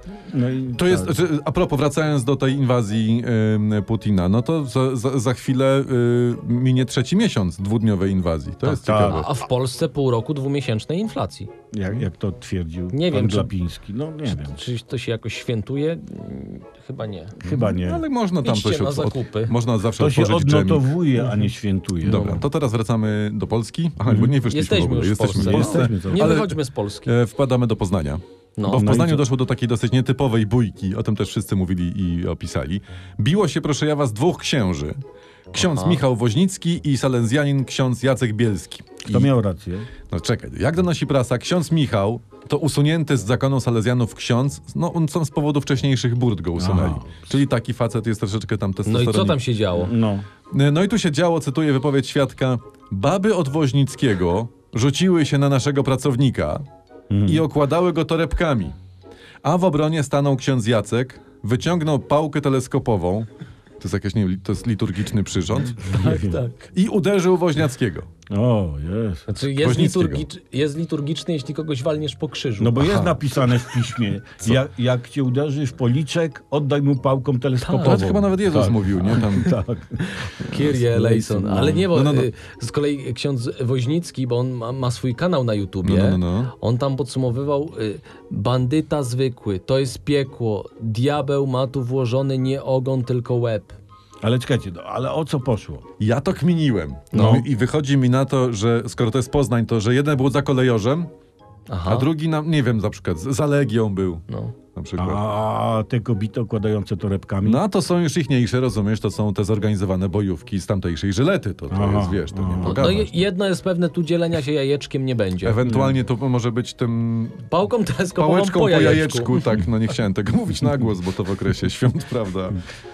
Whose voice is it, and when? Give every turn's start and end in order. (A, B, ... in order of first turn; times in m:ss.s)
0:00.3-0:01.1 A
0:00.7-0:09.3 B
0:08.7-0:09.3 A
0:09.0-0:11.5 C
0:11.7-0:14.6 A
0:12.9-0:13.5 C
0:14.3-0:17.4 C
0:17.4-0:18.0 A
0:17.5-0:20.9 B
0:18.4-0:19.5 C
0:20.0-0:22.4 A
0:22.0-0:35.0 B
0:22.0-0:22.4 C
0:24.1-0:24.4 A
0:24.4-0:27.1 C
0:25.3-0:26.3 A
0:28.6-0:29.0 C
0:28.8-0:29.2 A
0:35.5-0:39.3 B
0:35.6-0:36.0 C
0:39.0-0:39.9 A
0:40.1-0:49.4 B
0:46.6-0:47.2 A
0:48.9-0:49.9 C
0:49.7-0:50.3 A
0:50.5-0:56.6 B
0:57.1-0:57.4 A
0:57.2-0:58.8 B
0:59.4-1:03.3 B
1:03.8-1:05.8 B
1:05.8-1:06.7 C
1:05.8-1:06.4 A
1:06.7-1:08.1 B
1:08.3-1:09.2 A
1:09.3-1:13.0 C
1:09.6-1:10.2 B
1:12.6-1:20.1 A
1:12.8-1:13.1 B
1:17.6-1:18.0 C
1:17.7-1:19.6 B
1:20.0-1:33.7 C
1:20.4-1:22.3 B
1:25.8-1:26.5 B
1:34.2-1:35.8 A
1:36.0-1:41.1 B
1:37.1-1:37.4 C
1:37.1-1:37.4 A
1:41.7-1:42.1 C
1:41.8-1:45.2 B
1:44.3-1:44.5 C
1:45.0-1:47.6 A
1:47.4-1:53.2 B
1:51.7-1:53.1 A
1:52.6-1:55.6 C
1:55.4-1:57.5 B
1:55.6-1:55.9 A
1:57.5-1:59.5 C
1:58.2-2:02.6 B